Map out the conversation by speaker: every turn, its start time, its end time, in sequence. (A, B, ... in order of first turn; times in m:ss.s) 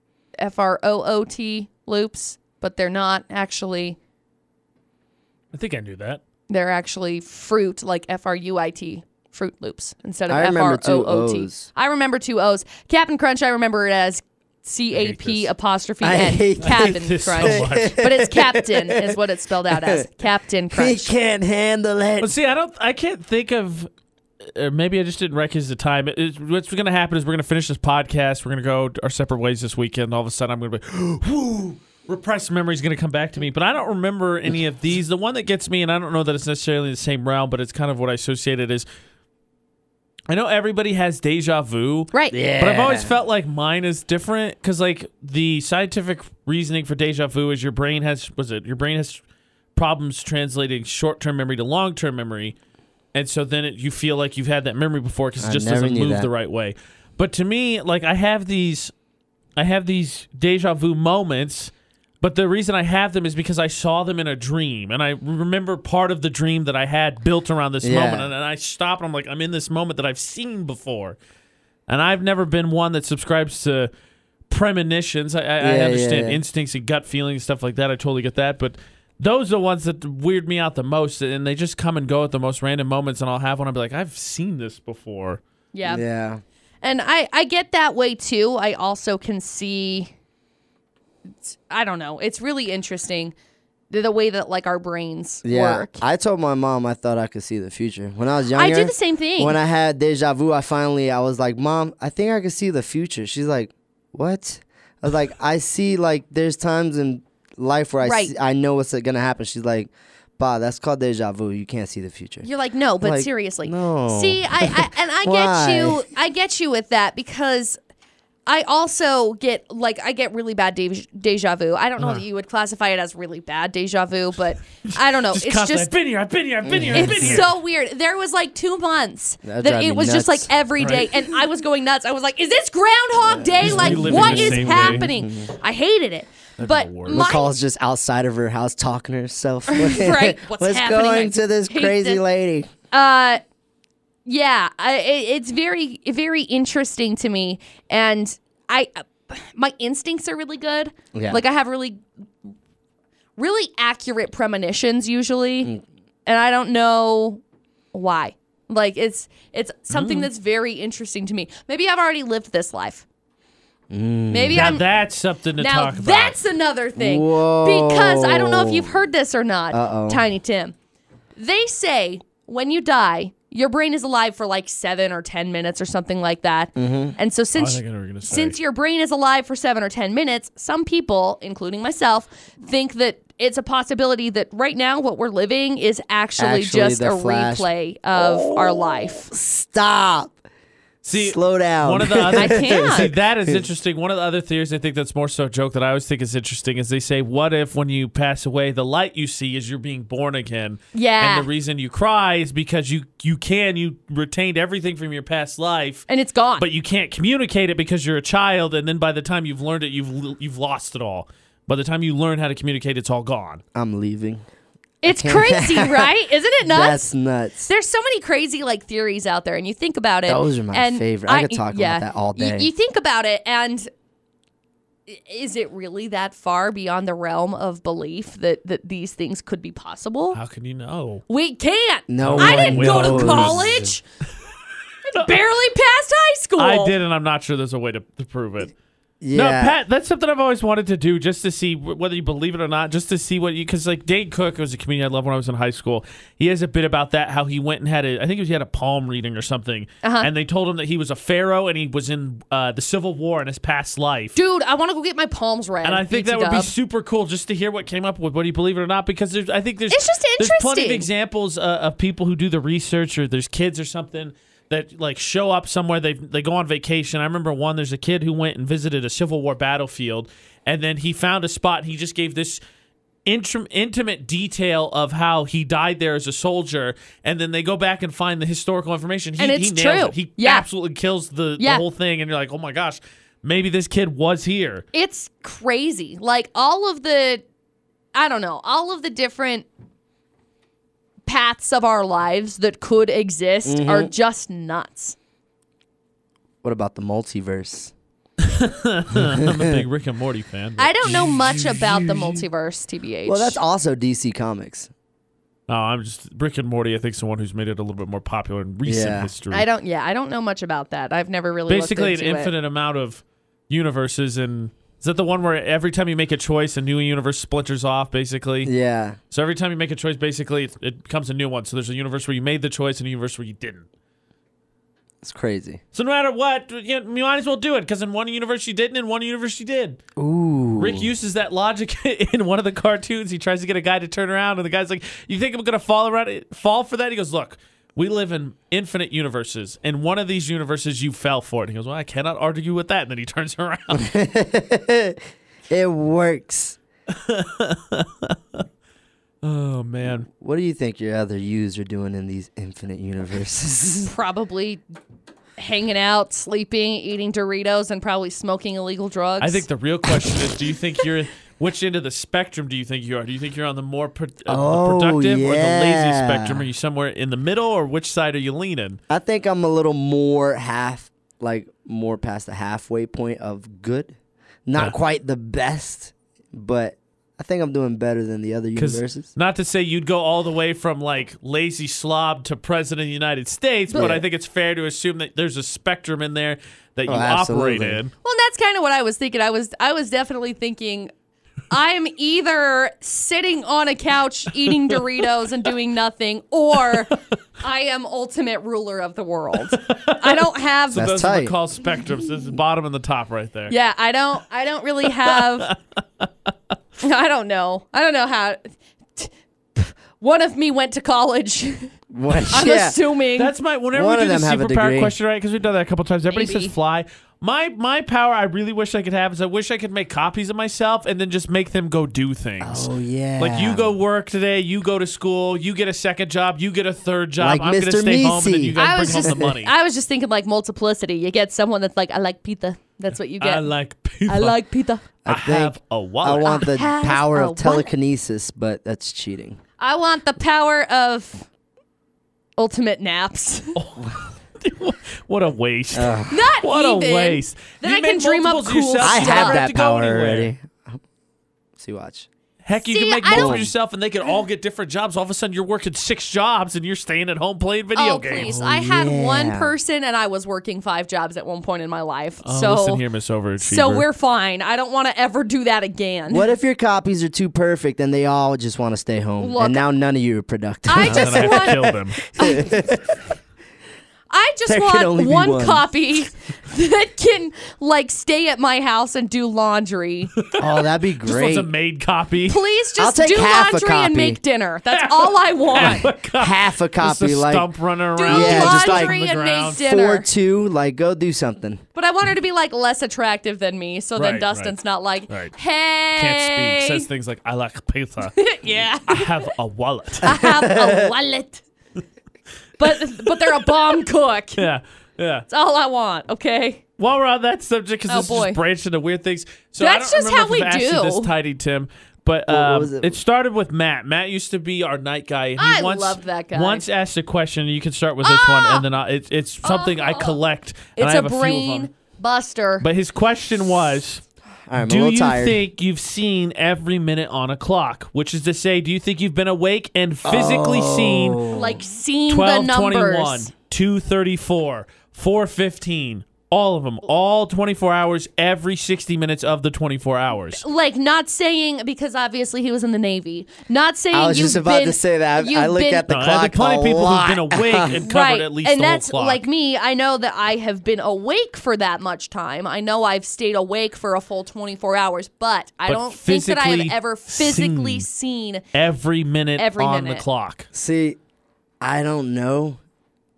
0:00.4-0:04.0 A
0:05.5-0:06.2 B
0:06.5-0:21.1 A
0:10.3-0:11.7 C
0:14.9-0:15.5 B
0:16.0-0:19.2 C
0:16.6-0:18.0 B
0:19.7-0:20.0 C
0:20.7-0:22.3 C
0:22.2-0:23.9 B
0:24.4-0:38.9 B
0:40.3-0:49.2 B
0:42.3-0:43.1 C
0:49.8-0:52.6 B
0:53.1-0:58.9 B
0:55.4-0:56.3 C
0:59.6-1:11.2 B
1:07.8-1:08.3 C
1:11.9-1:13.9 B
1:14.5-1:25.4 B
1:15.6-1:16.4 C
1:25.7-1:26.0 A
1:25.8-1:26.4 C
1:26.8-1:30.1 A
1:31.4-1:33.3 A
1:33.9-1:36.0 A
1:35.4-1:52.4 C
1:38.5-1:39.6 A
1:48.0-1:48.3 A
1:52.4-1:57.8 A
1:53.0-1:56.0 C
1:58.4-2:05.9 A
2:04.8-2:07.4 B
2:06.6-2:07.4 C
2:06.9-2:17.5 A
2:09.4-2:10.5 C
2:10.8-2:11.1 B
2:13.2-2:15.5 C
2:13.6-2:15.0 B
2:16.6-2:17.3 B
2:17.1-2:22.7 C
2:19.7-2:22.2 A
2:22.9-2:23.4 A
2:24.2-2:32.0 A
2:31.1-2:31.4 C
2:33.4-2:35.7 A
2:36.2-2:37.4 A
2:37.9-2:43.0 A
2:39.9-2:40.3 B
2:43.9-2:44.8 C
2:44.3-2:44.8 A
2:44.5-2:46.4 B
2:45.6-2:50.7 A
2:47.0-2:49.0 C
2:49.7-2:50.2 C
2:51.4-3:09.3 A
2:56.8-2:57.2 C
2:57.5-2:58.6 B
3:06.4-3:10.4 C
3:11.0-3:26.0 B
3:11.1-3:13.6 C
3:12.4-3:13.1 A
3:20.9-3:21.5 A
3:26.1-3:26.6 A
3:26.6-3:33.6 B
3:33.7-3:34.4 C
3:35.0-3:37.1 A
3:35.0-3:37.7 C
3:37.6-3:43.9 A
3:40.2-3:42.7 C
3:45.1-3:50.4 A
3:50.3-3:51.2 B
3:51.3-3:54.0 A
3:52.1-3:53.9 C
3:52.2-3:53.9 B
3:55.1-3:56.9 A
3:55.1-3:55.4 B
3:56.6-3:58.7 B
3:59.2-3:59.8 C
3:59.3-4:14.4 B
4:10.0-4:10.3 A
4:14.4-4:16.7 A
4:15.8-4:32.6 B
4:19.9-4:21.1 A
4:33.2-4:44.8 B
4:39.4-4:40.6 A
4:41.6-4:41.8 A
4:44.9-4:47.4 A
4:48.1-4:49.6 A
4:51.2-4:55.2 A
4:53.6-4:54.1 C
4:56.6-4:57.9 C
4:58.4-5:02.4 B
4:59.3-4:59.8 C
5:00.8-5:03.6 A
5:03.2-5:04.9 C
5:05.7-5:09.6 B
5:08.8-5:09.3 C
5:09.5-5:12.5 A
5:11.7-5:18.7 B
5:18.6-5:19.2 C
5:19.3-5:23.9 B
5:25.2-5:25.8 C
5:25.9-5:30.0 B
5:30.2-5:31.1 C
5:30.8-5:44.1 B
5:43.9-5:46.8 C
5:47.1-5:48.6 B
5:49.4-5:50.3 B
5:50.4-5:54.1 C
5:54.0-5:54.8 A
5:55.6-5:59.6 A
5:59.4-6:09.0 B
6:04.5-6:06.6 C
6:09.1-6:14.1 C
6:14.6-6:19.3 C
6:18.8-6:28.1 B
6:23.9-6:24.2 C
6:27.1-6:28.0 C
6:28.2-6:31.1 A
6:31.7-6:41.1 A
6:39.8-6:43.7 B
6:40.9-6:41.5 C
6:43.7-6:45.7 A
6:45.2-6:46.3 B
6:47.0-6:51.9 A
6:52.1-6:53.0 C
6:52.5-6:53.5 A
6:53.4-7:09.7 B
6:53.9-6:55.1 C
6:56.3-6:56.7 A
7:02.6-7:03.9 C
7:07.4-7:09.5 C
7:08.8-7:13.7 A
7:13.4-7:14.6 B
7:14.3-7:15.0 A
7:15.2-7:19.6 C
7:15.2-7:16.6 B
7:16.4-7:17.9 A
7:19.8-7:21.5 A
7:22.6-7:23.8 A
7:23.8-7:30.5 B
7:25.9-7:26.3 C
7:26.3-7:29.6 A
7:29.0-7:31.0 C
7:31.8-7:32.3 C
7:32.6-7:38.6 B
7:32.8-7:33.6 A
7:33.3-7:33.7 C
7:38.0-7:43.0 A
7:38.4-7:39.7 C
7:42.4-7:44.0 B
7:43.6-7:46.5 A
7:46.3-7:53.2 C
7:49.4-7:49.8 A
7:50.8-7:53.1 A
7:51.0-7:52.2 B
7:54.3-8:00.3 A
7:54.7-7:55.9 C
8:00.4-8:00.7 B
8:00.6-8:01.7 C
8:01.2-8:02.6 B
8:02.5-8:06.1 A
8:03.0-8:04.4 C
8:04.9-8:09.8 B
8:05.8-8:07.7 C
8:08.2-8:10.3 A
8:08.3-8:09.2 C
8:09.8-8:11.8 C
8:12.0-8:17.1 A
8:14.2-8:14.8 B
8:16.2-8:20.4 B
8:18.3-8:19.5 A
8:20.2-8:21.6 A
8:20.3-8:21.1 C
8:22.8-8:24.7 A
8:23.2-8:23.8 B
8:24.6-8:25.5 B
8:25.5-8:26.8 A
8:27.0-8:41.9 B
8:28.1-8:28.6 A
8:29.8-8:31.3 A
8:32.5-8:33.1 C
8:35.6-8:36.8 A
8:38.2-8:38.8 A
8:39.6-8:40.4 A
8:41.0-8:42.8 A
8:42.8-8:44.2 B
8:44.7-8:45.6 C
8:44.8-8:51.5 B
8:50.2-8:51.8 C
8:51.5-8:53.5 A
8:52.3-9:00.6 B
9:00.6-9:06.0 A
9:04.1-9:08.0 C
9:06.1-9:09.4 B
9:08.0-9:18.6 A
9:15.8-9:18.0 B
9:18.7-9:20.7 B
9:19.6-9:20.2 A
9:20.7-9:21.2 C
9:21.8-9:22.8 C